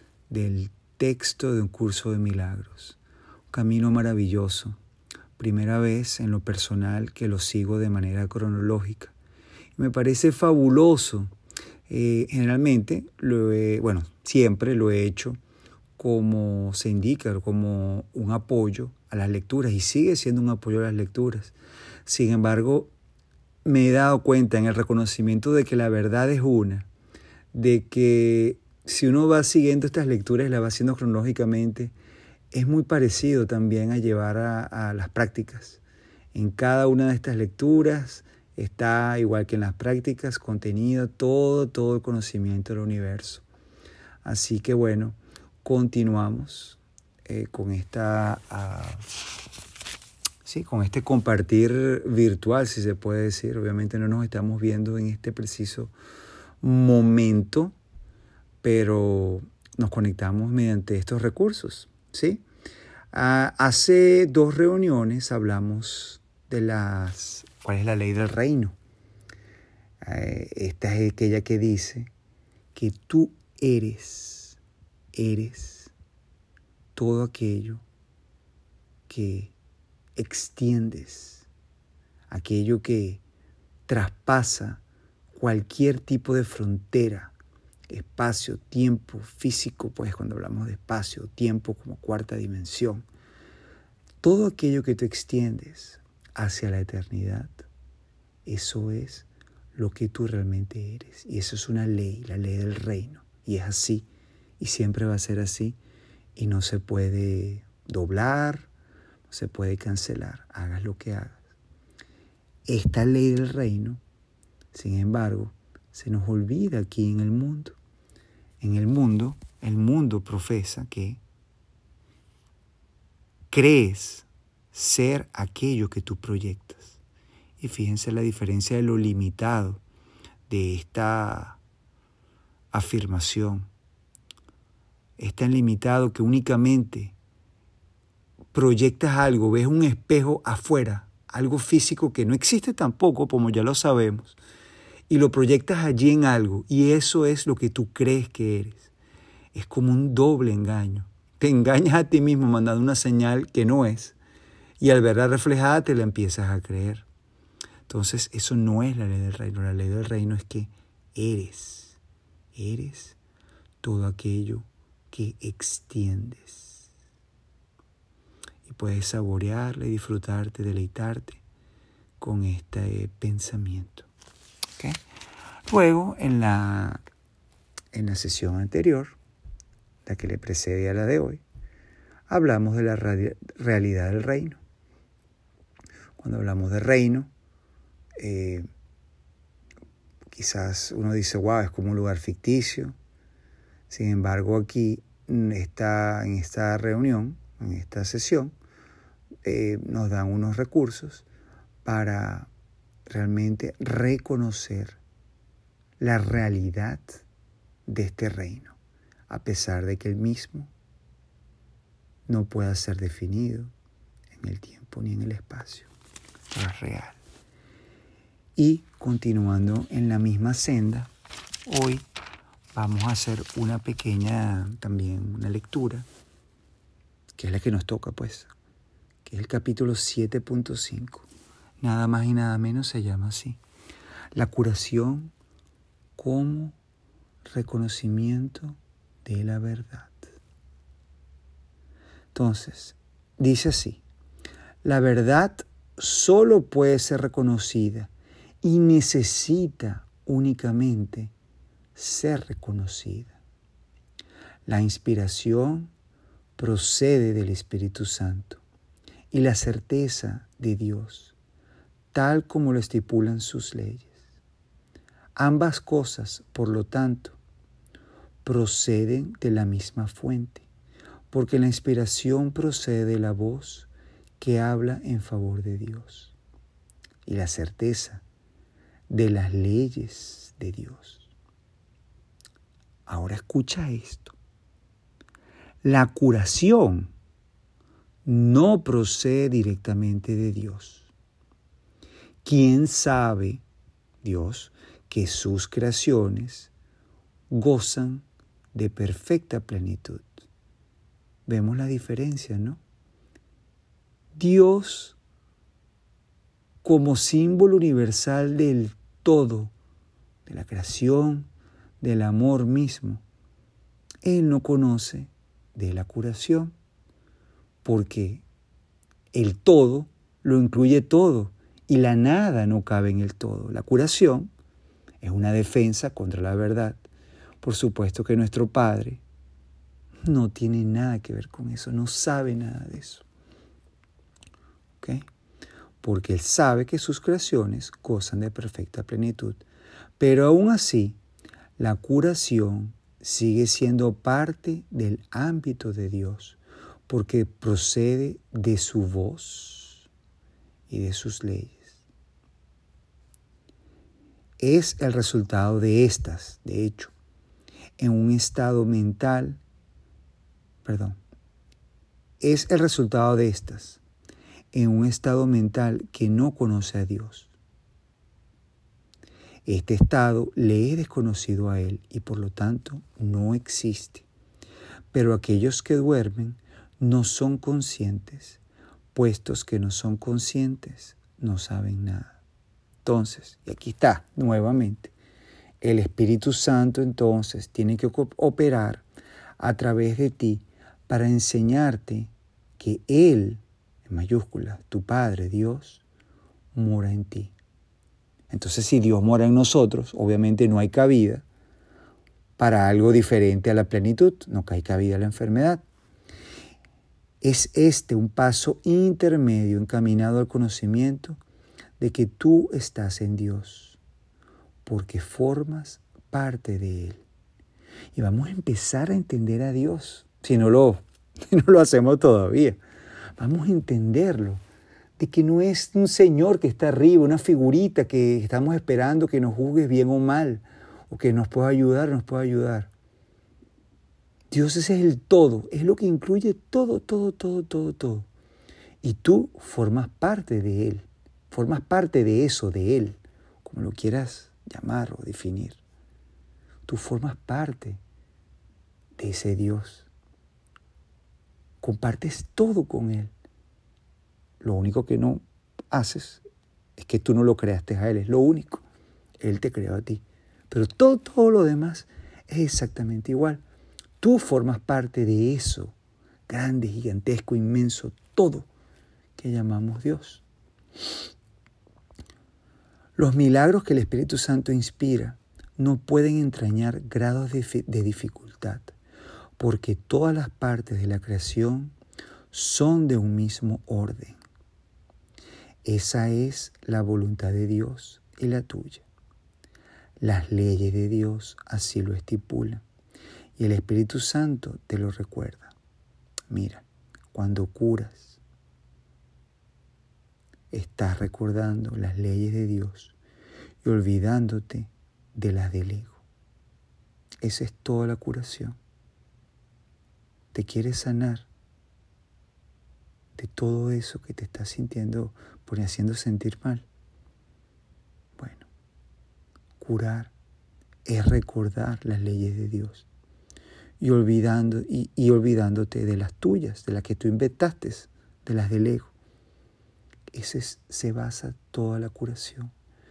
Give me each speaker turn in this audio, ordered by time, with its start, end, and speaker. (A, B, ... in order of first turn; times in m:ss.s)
0:00.3-0:03.0 A
0:03.5-0:04.8 A
0:05.4-0:09.1 A
0:09.8-0:11.3 A
0:11.9-0:15.4 A
0:16.0-0:21.5 A
0:22.0-0:22.9 A
0:23.6-0:26.9 A
0:27.5-0:31.9 A
0:32.5-0:35.8 A
0:36.3-0:43.4 A
0:44.2-0:49.0 A
0:50.4-0:55.9 A
0:56.6-0:57.8 A
0:58.6-1:02.4 A
1:03.1-1:08.8 A
1:10.0-1:12.1 A
1:12.7-1:14.6 A
1:15.1-1:15.9 A
1:17.0-1:17.8 A
1:19.1-1:19.5 A
1:20.2-1:21.5 A
1:22.3-1:23.2 A
1:23.9-1:24.8 A
1:25.3-1:27.3 A
1:27.9-1:33.0 A
1:34.2-1:37.6 A
1:38.4-1:44.1 A
1:44.6-1:45.8 A
1:46.4-1:48.7 A
1:49.3-1:51.4 A
1:52.6-1:54.0 A
1:54.7-1:57.8 A
1:58.6-2:01.2 A
2:03.5-2:07.0 A
2:07.6-2:09.8 A
2:10.5-2:11.6 A
2:12.7-2:13.7 A
2:15.2-2:17.1 A
2:18.5-2:24.4 A
2:25.1-2:28.9 A
2:29.5-2:34.2 A
2:34.8-2:37.0 A
2:37.9-2:42.0 A
2:42.5-2:43.2 A
2:43.8-2:46.8 A
2:48.6-2:51.4 A
2:52.2-2:54.1 A
2:55.7-2:57.0 A
2:57.9-2:59.2 A
3:00.0-3:01.4 A
3:02.3-3:04.6 A
3:06.2-3:07.3 A
3:08.2-3:08.7 A
3:10.3-3:13.0 A
3:13.9-3:18.5 A
3:19.4-3:21.2 A
3:21.8-3:22.5 A
3:23.0-3:25.0 A
3:26.0-3:27.2 A
3:27.8-3:28.8 A
3:29.3-3:30.7 A
3:32.3-3:33.7 A
3:34.3-3:35.9 A
3:36.5-3:37.2 A
3:38.6-3:41.1 A
3:41.6-3:42.1 A
3:42.7-3:46.0 A
3:47.4-3:48.5 A
3:49.2-3:51.2 A
3:51.8-3:53.6 A
3:54.3-3:55.3 A
3:56.2-3:56.8 A
3:57.4-4:00.2 A
4:02.3-4:04.0 A
4:04.8-4:11.3 A
4:11.9-4:13.4 A
4:14.6-4:15.9 A
4:16.6-4:18.6 A
4:19.3-4:21.3 A
4:22.1-4:24.1 A
4:25.4-4:27.4 A
4:28.4-4:30.6 A
4:31.3-4:33.9 A
4:34.4-4:36.3 A
4:37.2-4:38.2 A
4:39.1-4:41.3 A
4:43.1-4:44.3 A
4:45.8-4:47.1 A
4:48.2-4:51.1 A
4:52.4-4:53.6 A
4:54.2-4:56.7 A
4:57.5-5:00.4 A
5:01.4-5:02.8 A
5:04.3-5:05.2 A
5:06.8-5:09.7 A
5:10.4-5:11.5 A
5:12.0-5:13.2 A
5:14.2-5:16.7 A
5:17.8-5:18.4 A
5:19.3-5:24.5 A
5:25.2-5:27.0 A
5:27.6-5:29.2 A
5:30.2-5:33.2 A
5:36.0-5:39.6 A
5:40.2-5:41.2 A
5:41.8-5:50.1 A
5:50.9-5:52.0 A
5:54.6-5:57.1 A
5:58.0-5:59.6 A
6:00.8-6:01.2 A
6:02.4-6:04.0 A
6:04.7-6:07.5 A
6:09.6-6:14.2 A
6:15.1-6:18.6 A
6:19.1-6:22.4 A
6:23.0-6:25.1 A
6:25.8-6:29.0 A
6:29.6-6:36.0 A
6:36.7-6:37.5 A
6:38.5-6:41.4 A
6:42.6-6:45.8 A
6:47.4-6:51.4 A
6:52.0-6:54.0 A
6:54.8-6:57.2 A
6:58.1-7:02.8 A
7:03.4-7:04.6 A
7:05.2-7:12.9 A
7:14.5-7:18.3 A
7:19.0-7:25.8 A
7:26.8-7:28.0 A
7:29.2-7:30.1 A
7:31.8-7:33.3 A
7:34.6-7:36.4 A
7:37.0-7:38.8 A
7:39.4-7:43.6 A
7:44.2-7:45.9 A
7:46.5-7:48.7 A
7:49.4-7:50.4 A
7:53.2-7:58.9 A
7:59.6-8:01.9 A
8:02.5-8:04.4 A
8:05.8-8:09.0 A
8:10.2-8:12.8 A
8:13.6-8:15.7 A
8:16.5-8:18.4 A
8:20.7-8:23.2 A
8:23.8-8:26.2 A
8:27.4-8:28.8 A
8:30.5-8:31.5 A
8:33.4-8:36.8 A
8:38.4-8:38.7 A
8:39.8-8:40.3 A
8:41.0-8:43.1 A
8:44.0-8:49.1 A
8:50.3-8:52.7 A